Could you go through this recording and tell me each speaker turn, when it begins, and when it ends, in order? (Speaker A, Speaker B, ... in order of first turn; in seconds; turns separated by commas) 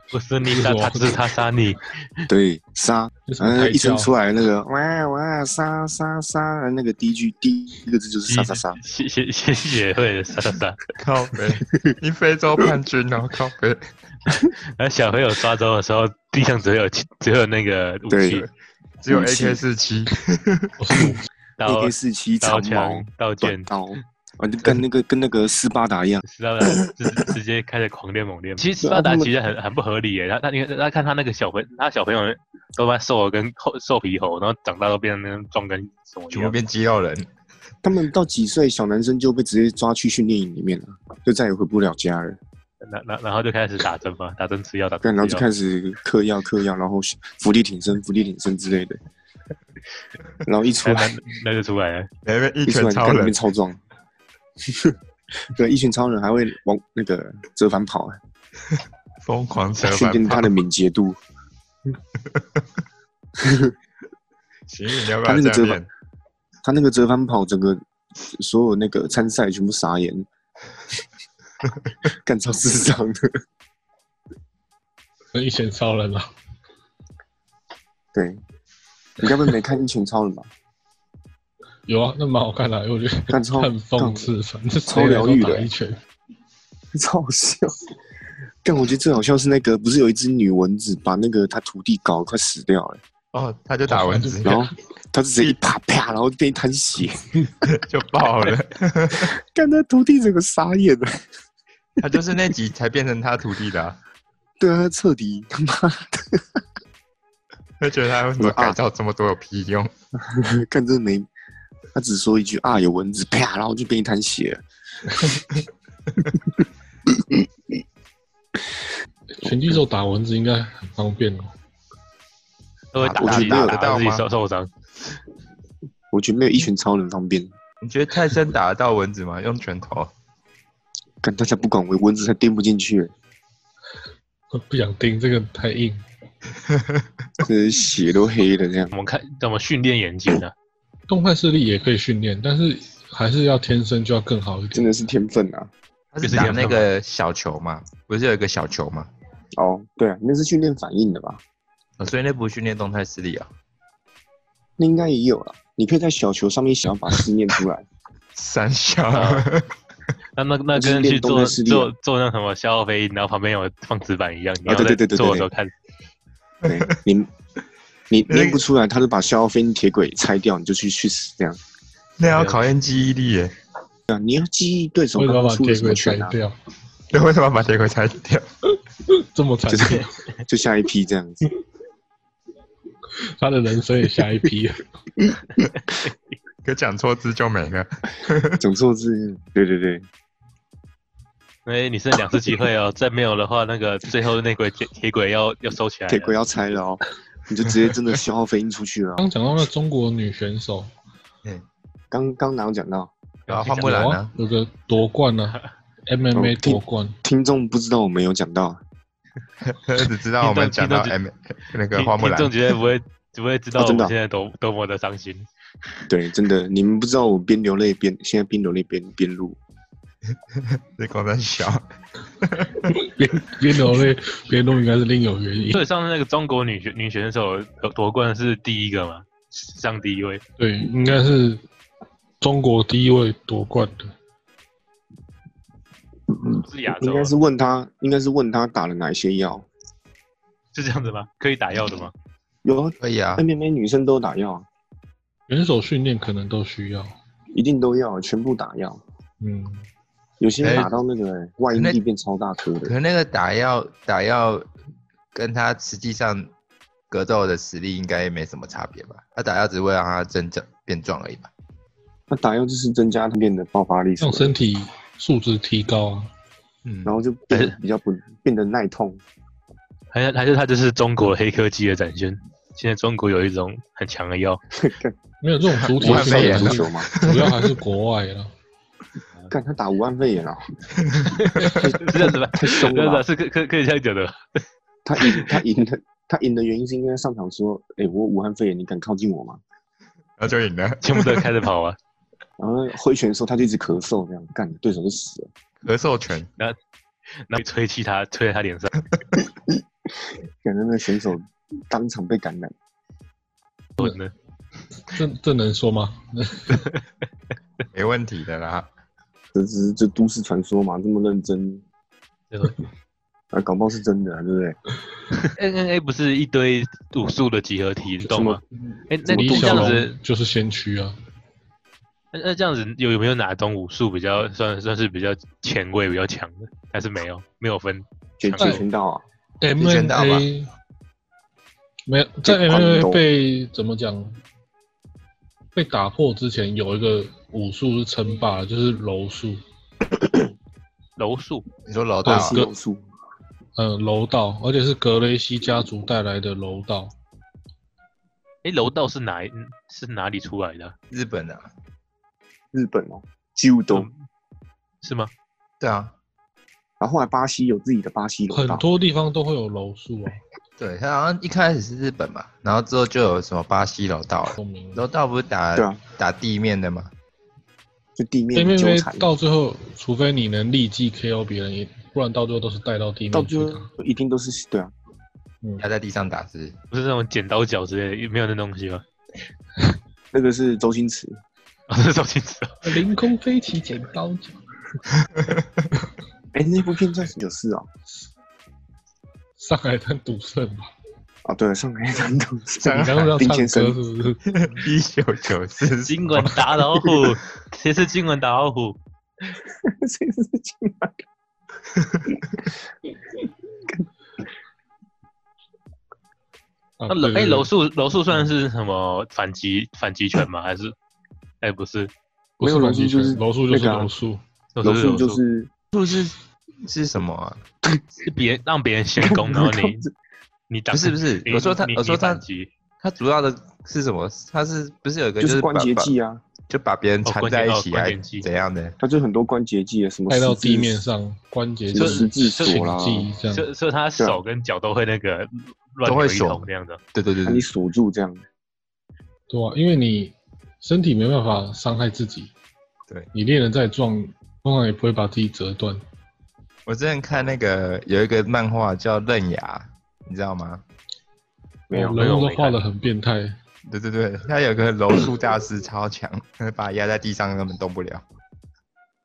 Speaker A: 0.1-2.3, Speaker B: 0.5-1.2, Speaker C: 2.3-8.8, Speaker B: 3.3-4.1, Speaker A: 8.3-10.8, Speaker D: 11.0-13.9, Speaker A: 14.8-18.5, Speaker C: 18.1-18.5, Speaker D: 19.0-20.8, Speaker C: 19.1-19.6, Speaker B: 20.8-21.3, Speaker A: 21.6-24.0, Speaker C: 21.6-27.3, Speaker A: 26.2-36.6, Speaker C: 28.8-29.3, Speaker D: 36.3-37.3, Speaker C: 37.8-42.4, Speaker A: 42.8-45.5, Speaker C: 45.0-49.0, Speaker C: 50.5-51.1, Speaker A: 50.8-52.1, Speaker D: 52.2-53.3, Speaker C: 52.7-53.8, Speaker C: 54.6-55.0, Speaker C: 55.5-58.2, Speaker D: 59.2-60.5, Speaker C: 59.8-61.2, Speaker D: 62.2-62.6, Speaker C: 63.4-63.7, Speaker D: 64.7-65.9, Speaker C: 65.2-65.8, Speaker C: 66.6-70.3, Speaker C: 72.1-73.4, Speaker B: 75.3-76.3, Speaker C: 78.1-78.4, Speaker C: 79.2-80.5, Speaker B: 81.9-86.0, Speaker C: 83.3-84.3, Speaker C: 84.9-85.7, Speaker C: 86.9-87.8, Speaker C: 88.6-93.0, Speaker D: 93.3-94.7, Speaker B: 93.9-94.7, Speaker C: 94.5-97.4, Speaker D: 97.6-99.3, Speaker C: 99.1-101.2, Speaker D: 102.0-104.0, Speaker C: 104.6-106.6, Speaker D: 107.8-109.9, Speaker C: 108.4-108.8, Speaker C: 110.2-111.3, Speaker C: 112.0-114.6, Speaker C: 117.1-117.5, Speaker B: 119.3-121.5, Speaker C: 119.5-119.7, Speaker A: 122.9-124.7, Speaker D: 123.0-124.2, Speaker C: 123.2-123.8, Speaker C: 126.1-127.5, Speaker D: 127.8-130.1, Speaker C: 131.2-133.1, Speaker B: 134.5-136.0, Speaker D: 136.7-137.1, Speaker C: 137.4-138.9, Speaker A: 138.9-140.5, Speaker B: 141.1-144.9, Speaker C: 144.7-145.7, Speaker D: 146.1-149.1, Speaker A: 146.2-146.9, Speaker C: 149.6-151.4, Speaker D: 152.0-153.5, Speaker C: 154.8-157.8, Speaker D: 158.4-159.7, Speaker A: 159.1-159.5, Speaker A: 160.4-165.7, Speaker C: 160.8-161.9, Speaker C: 164.7-165.5, Speaker C: 166.6-167.3, Speaker D: 166.7-167.0, Speaker C: 168.1-171.6, Speaker D: 168.3-168.6, Speaker D: 172.2-173.5, Speaker A: 172.2-172.6, Speaker C: 174.1-176.3, Speaker B: 175.2-176.6, Speaker D: 177.1-178.4, Speaker B: 179.1-180.1, Speaker C: 179.7-181.4, Speaker B: 183.2-184.8, Speaker C: 185.2-185.7, Speaker D: 186.6-188.6, Speaker C: 188.6-190.1, Speaker A: 191.7-196.3, Speaker C: 196.1-199.2, Speaker B: 199.2-200.9, Speaker C: 202.1-203.1, Speaker A: 203.5-204.2, Speaker D: 203.5-204.3, Speaker B: 203.8-207.2, Speaker C: 206.3-208.8, Speaker D: 209.7-212.5, Speaker A: 210.4-211.2, Speaker A: 211.9-215.5, Speaker C: 213.8-214.1, Speaker C: 216.1-219.6, Speaker D: 220.5-221.8, Speaker D: 222.4-222.9, Speaker B: 222.9-225.8, Speaker A: 225.7-230.4, Speaker B: 230.6-231.7, Speaker B: 232.4-234.1, Speaker C: 236.3-239.7, Speaker A: 236.6-237.3, Speaker A: 240.7-242.1, Speaker C: 242.7-244.7, Speaker D: 243.0-243.4, Speaker B: 245.5-247.1, Speaker C: 247.5-249.0, Speaker B: 249.4-249.9, Speaker C: 250.4-252.9, Speaker D: 250.6-250.9, Speaker D: 252.8-254.7, Speaker D: 255.3-256.5, Speaker D: 257.1-261.5, Speaker C: 262.3-264.6, Speaker B: 264.2-266.3, Speaker D: 266.9-267.1, Speaker C: 267.1-269.2, Speaker A: 270.1-274.6, Speaker C: 274.7-275.2, Speaker B: 275.4-278.5, Speaker D: 275.8-277.6, Speaker C: 276.0-277.1, Speaker C: 279.5-280.6, Speaker D: 281.0-281.8, Speaker A: 281.4-284.6, Speaker C: 281.6-283.2, Speaker C: 285.1-289.6, Speaker A: 285.2-285.6, Speaker D: 290.4-291.5, Speaker A: 291.0-292.0, Speaker C: 292.6-295.5, Speaker D: 295.8-296.5, Speaker A: 297.5-298.9, Speaker C: 299.7-302.7, Speaker A: 304.0-304.3, Speaker B: 305.1-306.8, Speaker D: 307.9-308.9, Speaker C: 309.5-311.8, Speaker A: 312.5-312.8, Speaker C: 313.5-314.8, Speaker A: 315.6-320.1, Speaker C: 318.2-318.6, Speaker C: 319.2-320.0, Speaker B: 319.3-321.2, Speaker A: 322.3-328.1, Speaker C: 328.4-329.2, Speaker B: 328.6-328.8, Speaker B: 329.6-330.7, Speaker D: 329.8-330.5, Speaker B: 332.1-334.4, Speaker C: 332.4-333.2, Speaker B: 335.8-339.6, Speaker A: 341.2-341.7, Speaker D: 341.9-342.6, Speaker B: 342.2-342.7, Speaker C: 342.2-343.1, Speaker B: 343.8-347.1, Speaker A: 348.6-350.9, Speaker D: 351.1-351.7, Speaker C: 352.7-354.1, Speaker A: 355.0-355.3, Speaker D: 355.8-356.1, Speaker C: 357.0-358.9, Speaker B: 358.5-360.4, Speaker D: 360.8-367.1, Speaker B: 364.6-365.0, Speaker C: 365.8-366.0, Speaker C: 368.2-369.3, Speaker B: 368.5-373.9, Speaker C: 373.3-374.9, Speaker D: 375.8-376.8, Speaker A: 376.9-379.0, Speaker C: 380.3-381.4, Speaker A: 381.9-382.8, Speaker B: 382.8-384.6, Speaker D: 385.2-385.8, Speaker C: 386.5-387.9, Speaker B: 389.6-390.9, Speaker C: 391.4-394.0, Speaker D: 392.8-393.3, Speaker B: 392.9-394.4, Speaker D: 394.4-396.7, Speaker A: 396.1-399.0, Speaker C: 399.7-401.2, Speaker D: 401.9-402.4, Speaker B: 407.0-407.7, Speaker A: 407.1-410.9, Speaker A: 411.6-412.1, Speaker B: 412.6-414.4, Speaker C: 412.6-414.1, Speaker A: 414.8-415.4, Speaker C: 414.8-415.7, Speaker D: 415.9-417.6, Speaker A: 418.2-420.0, Speaker C: 419.2-420.1, Speaker A: 420.7-422.7, Speaker D: 420.9-422.4, Speaker D: 423.0-426.1, Speaker C: 425.4-426.4, Speaker D: 426.7-429.0, Speaker A: 427.2-428.5, Speaker C: 429.0-431.0, Speaker B: 430.3-433.7, Speaker C: 431.9-433.3, Speaker A: 431.9-432.9, Speaker A: 433.5-437.0, Speaker D: 436.1-437.6, Speaker C: 437.4-438.4, Speaker B: 439.5-442.5, Speaker B: 443.3-446.0, Speaker D: 446.9-450.8, Speaker C: 451.9-452.8, Speaker B: 451.9-453.6, Speaker D: 453.9-458.2